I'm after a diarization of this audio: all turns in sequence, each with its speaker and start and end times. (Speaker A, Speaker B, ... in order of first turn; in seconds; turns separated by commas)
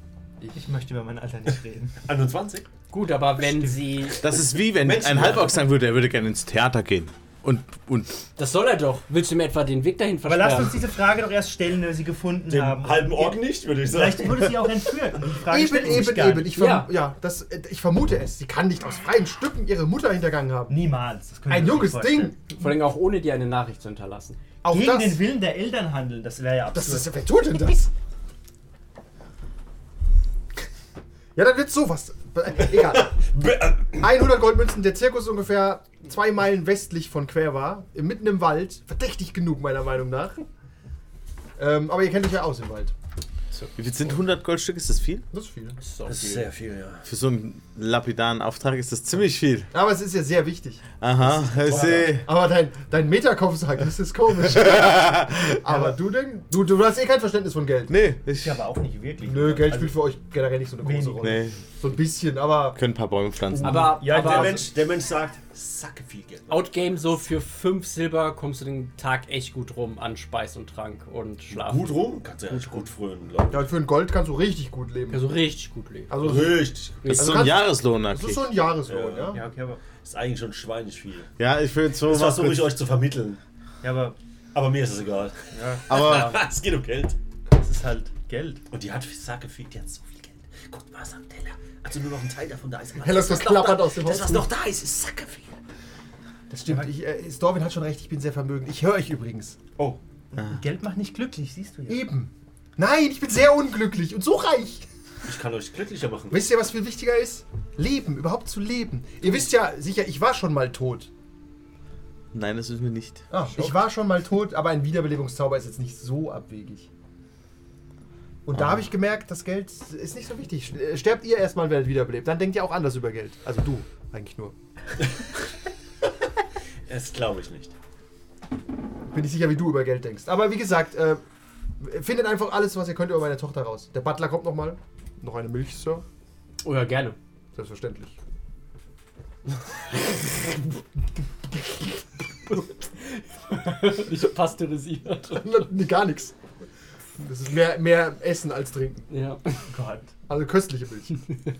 Speaker A: 0.5-2.0, Speaker B: 2.0-2.7, Speaker C: 2.9-4.2, Speaker D: 4.2-8.1, Speaker B: 4.7-5.6, Speaker C: 8.4-10.8, Speaker A: 10.2-16.5, Speaker B: 12.5-14.8, Speaker E: 15.5-20.8, Speaker C: 16.5-16.9, Speaker A: 20.7-22.3, Speaker E: 21.5-22.4, Speaker C: 22.6-24.4, Speaker E: 24.6-25.3, Speaker A: 24.7-27.1, Speaker E: 26.7-27.9, Speaker E: 31.3-33.3, Speaker B: 32.9-34.0, Speaker E: 33.9-40.4, Speaker E: 41.6-42.9, Speaker D: 43.8-45.2, Speaker E: 45.3-45.8, Speaker C: 45.8-46.5, Speaker B: 46.0-47.1, Speaker D: 47.0-49.7, Speaker E: 49.7-50.9, Speaker D: 51.0-52.3, Speaker B: 51.3-52.1, Speaker A: 51.6-52.1, Speaker E: 51.7-58.0, Speaker D: 54.5-55.6, Speaker D: 57.9-58.6, Speaker A: 58.3-60.0, Speaker E: 59.2-62.8, Speaker A: 60.8-61.2, Speaker D: 61.2-61.6, Speaker D: 62.7-64.0, Speaker A: 63.5-64.7, Speaker C: 63.6-64.6, Speaker B: 63.9-66.7, Speaker C: 66.5-72.6, Speaker B: 71.5-73.7, Speaker E: 73.5-75.3, Speaker C: 75.1-76.5, Speaker E: 76.1-79.5, Speaker B: 76.2-77.1, Speaker C: 77.0-77.4, Speaker D: 77.1-78.5, Speaker B: 78.9-79.4, Speaker A: 79.3-79.8, Speaker B: 80.0-81.3, Speaker D: 81.4-82.7, Speaker B: 82.0-83.4, Speaker A: 83.8-84.2, Speaker B: 84.5-87.2, Speaker A: 85.5-86.3, Speaker D: 85.9-86.3, Speaker A: 87.5-88.6, Speaker B: 88.7-95.5, Speaker E: 93.0-94.5, Speaker E: 96.5-99.6, Speaker A: 96.7-96.9, Speaker A: 99.8-102.0, Speaker E: 101.9-104.8, Speaker B: 105.3-106.4, Speaker E: 106.3-111.1, Speaker D: 112.3-113.2, Speaker E: 113.3-116.9, Speaker E: 118.4-124.5, Speaker B: 126.9-127.7, Speaker E: 129.1-131.2, Speaker E: 131.8-136.0, Speaker C: 136.6-137.2, Speaker E: 137.5-138.2, Speaker C: 143.0-145.5, Speaker E: 145.3-146.3, Speaker E: 147.2-149.1, Speaker C: 149.1-149.4, Speaker A: 149.7-150.1, Speaker E: 150.3-151.2